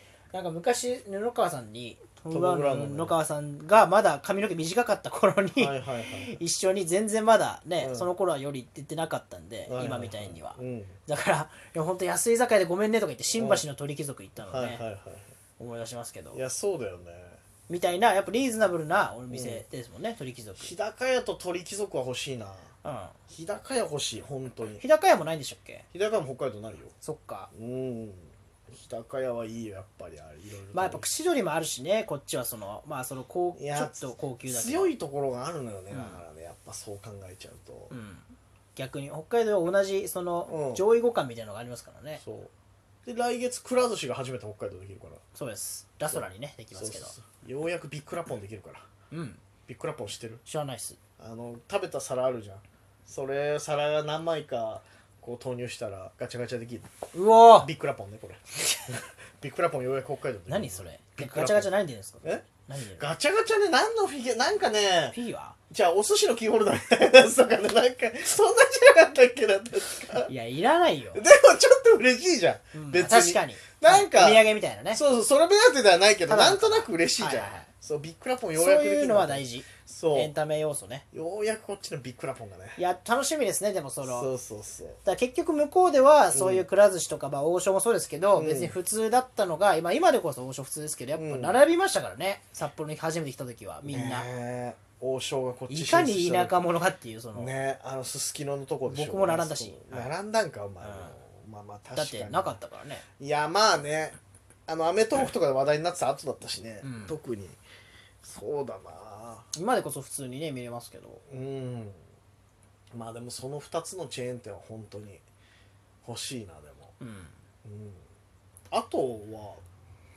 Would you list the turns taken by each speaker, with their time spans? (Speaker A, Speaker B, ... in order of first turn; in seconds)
Speaker A: 0.3-14.8, 15.6-16.4, 17.7-20.7, 22.8-23.1, 24.8-25.9, 27.0-27.5, 30.7-34.9, 35.9-36.2, 37.9-42.2, 45.4-47.1, 49.1-49.4, 50.5-51.0, 57.1-57.7, 60.5-63.1, 65.1-65.6, 70.3-71.2, 72.7-75.0, 76.3-77.7, 78.5-81.0, 82.8-84.3, 85.0-94.3, 95.7-97.5, 98.9-100.1, 100.8-101.1, 102.0-103.0, 106.8-107.2, 109.5-111.2, 117.0-117.4
Speaker B: 2.3-3.2, 5.6-6.4, 7.8-8.1, 9.7-11.0, 13.3-13.7, 14.4-15.3, 16.3-17.4, 19.3-19.6, 20.6-22.7, 23.3-24.8, 25.9-26.9, 27.5-31.1, 33.6-38.0, 40.5-40.9, 42.2-42.5, 43.1-45.2, 46.1-48.9, 49.7-50.4, 51.2-56.9, 57.6-61.7, 63.0-65.2, 65.7-70.3, 71.1-80.3, 81.1-82.8, 84.0-85.0, 86.3-86.7, 88.3-88.8, 91.2-91.6, 93.9-96.7, 97.3-102.6, 103.2-104.2, 104.7-107.6, 108.2-109.5, 111.3-112.0, 112.9-115.2, 116.0-117.0, 117.6-118.0, 118.7-119.6